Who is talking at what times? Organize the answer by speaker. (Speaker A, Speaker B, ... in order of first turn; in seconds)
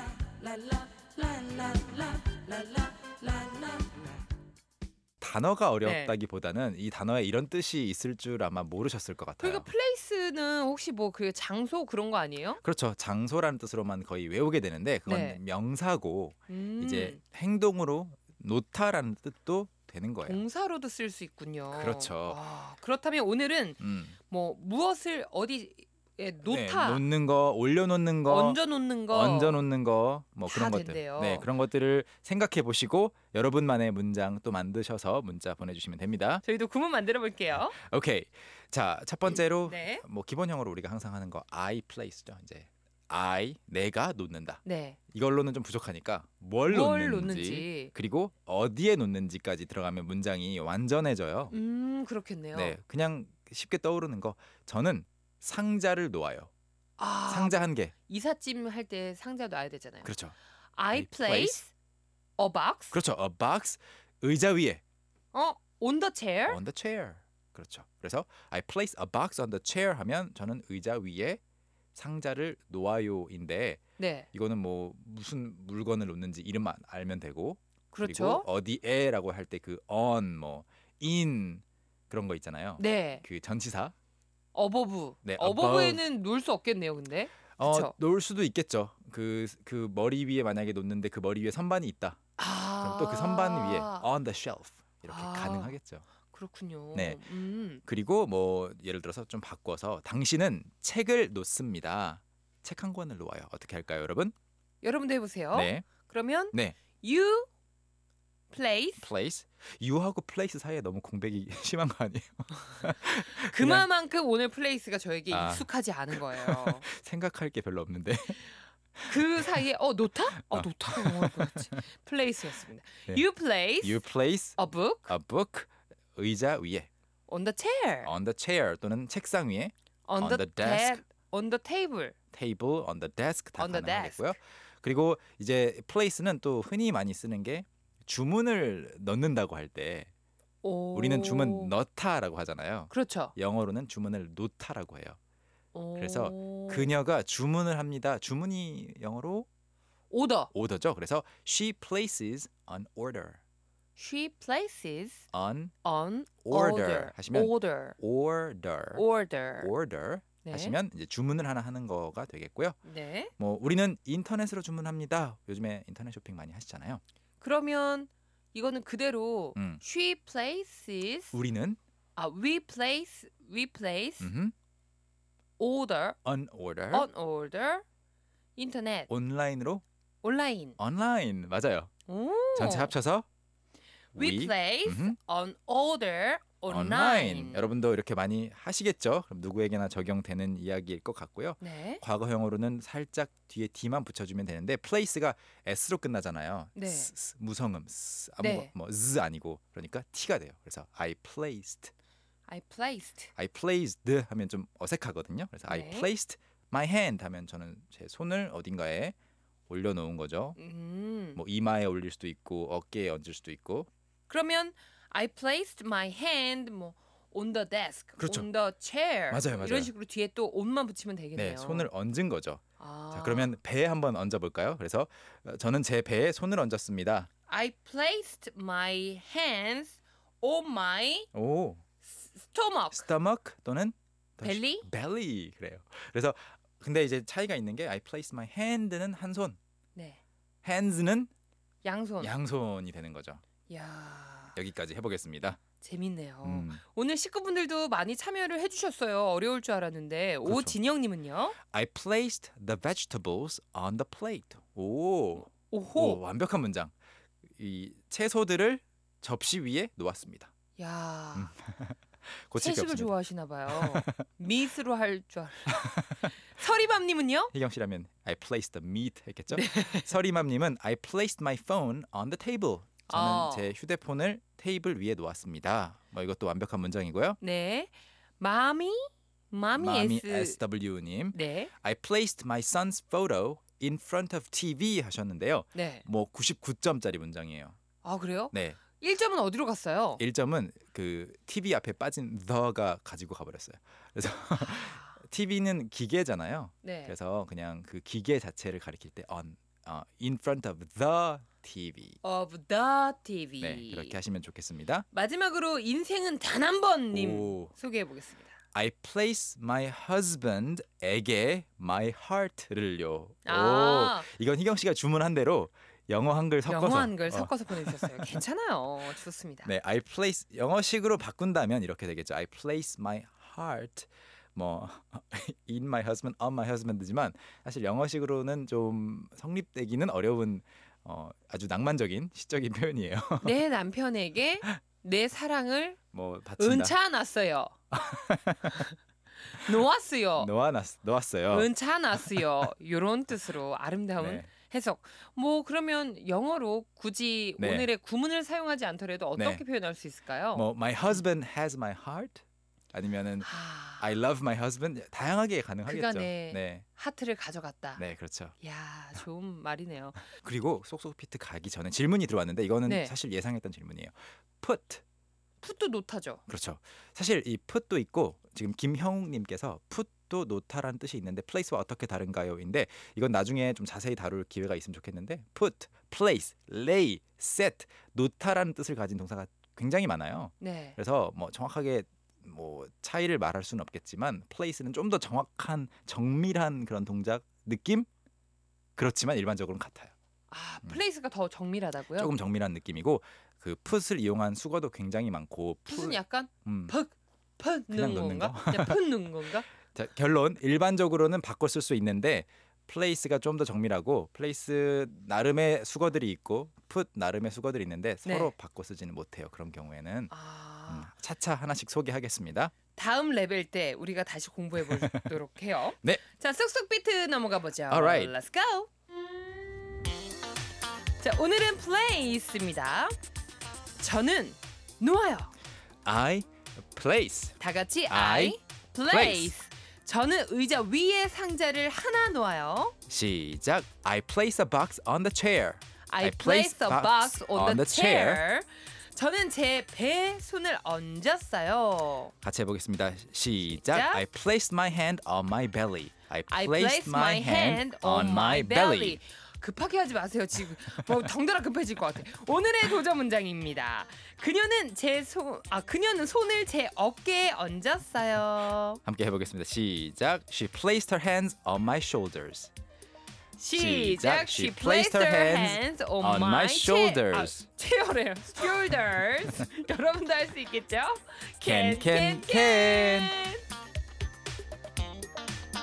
Speaker A: 5.2-9.7, 12.6-20.4, 21.7-22.4, 23.8-24.1, 26.4-36.4, 37.7-51.5, 52.5-56.5, 57.3-57.9, 60.0-60.3, 60.9-61.6, 62.9-64.8, 66.5-71.4, 71.9-73.8, 74.3-83.9, 85.2-86.0, 87.6-92.2, 92.8-96.0, 96.9-97.2, 97.8-104.3, 105.5-105.9, 106.5-106.8, 109.0-113.9, 115.3-118.4, 119.0-119.4, 120.4-121.7, 123.8-124.6, 125.1-126.9, 128.0-131.0, 132.3-140.1, 140.9-145.2, 146.0-149.5, 150.5-153.4, 155.3-155.7, 156.4-159.0, 159.6-162.8, 163.4-167.0, 169.6-169.8, 171.3-171.8, 174.2-174.5, 176.2-177.1, 179.1-179.8, 180.8-181.9, 182.5-183.2, 184.1-185.2, 186.7-201.9, 203.3-209.1, 209.7-210.6, 211.3-213.9, 218.2-218.5, 219.3-219.9, 221.3-222.6, 223.1-227.3, 231.3-231.8, 232.9-239.6, 240.6-241.3, 242.2-243.4, 244.5-245.6, 246.4-246.8, 250.4-250.8, 251.7-256.9, 257.6-260.5, 261.3-263.1, 263.7-264.2, 265.7-266.2, 267.5-277.4, 279.8-287.8, 288.5-288.8, 290.2-302.2, 303.6-305.1, 307.1-307.7, 308.7-318.4, 319.6-333.6, 336.1-336.9, 337.9-338.8, 340.4-342.6, 344.2-344.5, 347.6-347.9, 349.4-349.6, 350.5-356.9, 358.0-358.5, 360.2-365.0, 366.5-388.1, 388.9-390.1, 392.1-396.9, 397.9-399.0, 399.9-410.3, 410.9-412.7, 414.8-415.3, 417.9-418.3, 426.0-427.6, 428.1-429.5, 433.1-438.4, 442.4-449.2, 450.8-451.3, 459.0-462.7, 463.7-467.7, 471.6-473.3
Speaker B: 5.8-6.1, 9.4-12.6, 15.1-15.4, 16.5-17.2, 20.2-27.0, 28.3-29.6, 30.5-31.5, 36.4-37.8, 39.6-40.0, 44.6-45.0, 46.6-47.9, 51.5-52.8, 57.0-60.1, 60.8-61.7, 62.4-63.0, 65.3-66.6, 74.0-74.3, 77.9-78.5, 82.8-83.2, 84.5-87.9, 92.4-94.1, 95.1-95.8, 96.3-97.8, 104.8-107.5, 108.5-109.1, 113.3-116.8, 119.1-124.0, 124.6-125.1, 127.3-128.1, 130.1-132.1, 133.6-134.3, 140.6-141.7, 142.9-143.3, 145.7-146.9, 150.1-150.5, 154.0-155.3, 155.8-158.0, 158.9-159.7, 160.4-160.8, 162.8-163.3, 167.4-171.3, 172.2-174.3, 175.6-176.2, 176.9-177.8, 178.6-179.1, 180.2-180.8, 182.1-182.9, 184.1-187.7, 191.6-192.0, 196.8-197.1, 198.4-198.7, 202.5-203.3, 205.7-206.1, 210.6-211.4, 214.3-221.9, 222.8-223.5, 227.5-231.3, 232.1-233.1, 234.4-234.9, 239.9-240.2, 241.8-242.3, 243.7-244.6, 245.8-251.6, 255.4-256.2, 260.8-261.5, 262.6-267.5, 269.5-270.1, 273.1-273.7, 277.4-280.6, 281.3-281.7, 285.7-286.0, 288.0-290.2, 294.5-295.1, 296.8-297.1, 302.2-304.2, 305.1-308.5, 313.4-314.3, 316.7-319.7, 333.4-336.0, 336.6-337.8, 339.5-340.5, 341.5-351.2, 353.4-354.1, 355.9-358.0, 358.6-360.2, 362.9-363.1, 365.6-366.4, 380.6-381.0, 390.5-392.3, 395.9-399.7, 408.2-408.5, 410.3-411.1, 412.9-418.9, 421.2-423.1, 424.0-425.5, 427.6-432.9, 436.1-442.3, 443.7-444.2, 446.5-459.0, 463.6-473.6